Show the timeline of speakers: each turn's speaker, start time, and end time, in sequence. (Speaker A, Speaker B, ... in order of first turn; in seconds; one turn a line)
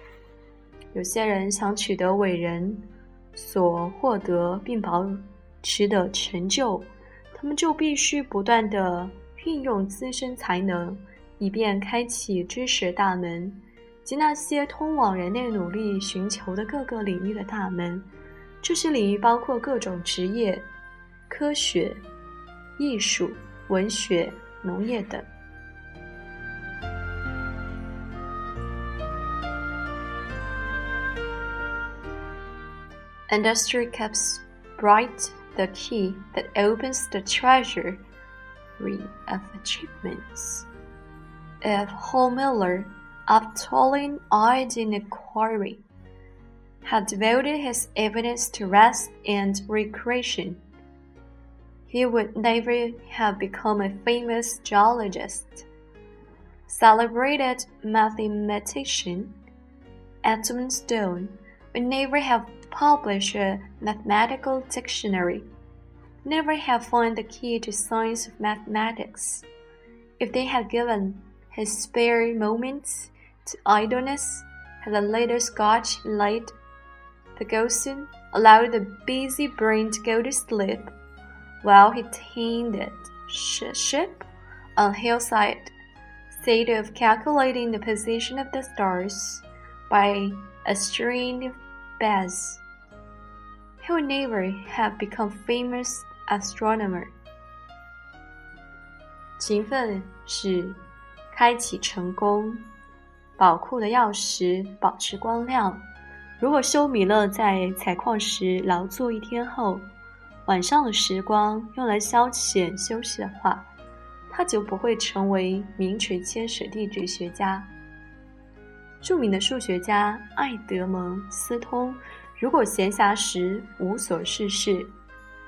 Speaker A: 0.9-18.1
Speaker A: 18.6-20.7
Speaker A: 21.3-22.1
Speaker A: 22.8-25.3
Speaker A: 33.3-38.0
Speaker A: 38.8-40.7
Speaker A: 41.6-45.8
Speaker A: 46.8-50.6
Speaker A: 51.9-55.7
Speaker A: 56.7-59.4
Speaker A: 60.2-65.5
Speaker A: 66.2-69.5
Speaker A: 70.2-76.5
Speaker A: 77.4-80.9
Speaker A: 81.6-85.7
Speaker A: 86.3-92.6
Speaker A: 93.8-97.1
Speaker A: 99.4-100.8
Speaker A: 101.3-102.7
Speaker A: 103.4-105.9
Speaker A: 106.4-109.9
Speaker A: 110.5-113.7
Speaker A: 114.3-117.7
Speaker A: 119.0-124.9